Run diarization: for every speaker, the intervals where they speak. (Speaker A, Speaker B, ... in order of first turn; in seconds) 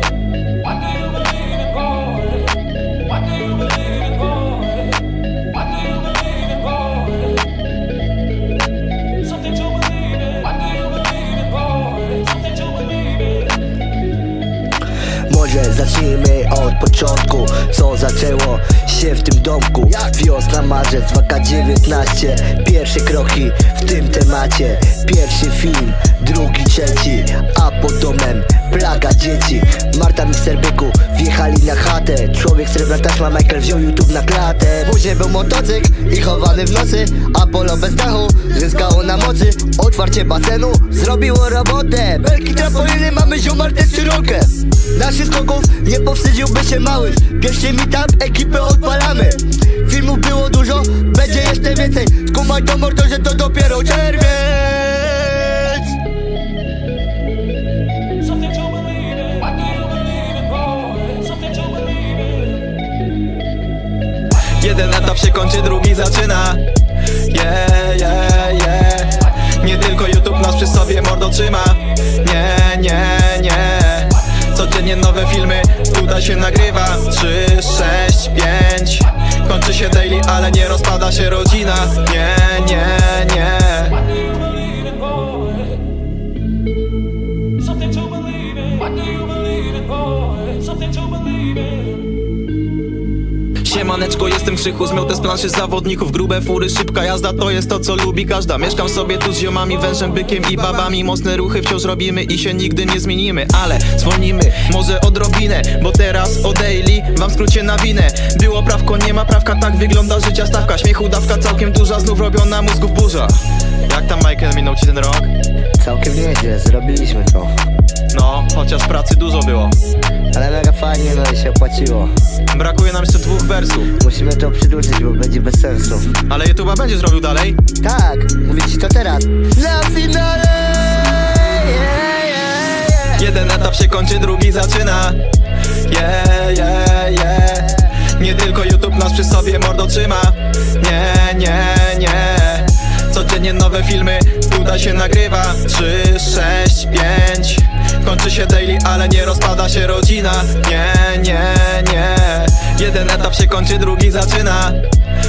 Speaker A: 15.3-55.8, 115.8-117.5, 120.3-122.2, 124.0-126.2, 127.8-133.1
Speaker B: 64.6-66.6, 67.3-84.1, 93.6-115.3, 118.1-119.8, 122.5-123.9, 126.3-127.6, 133.1-135.2, 135.8-154.8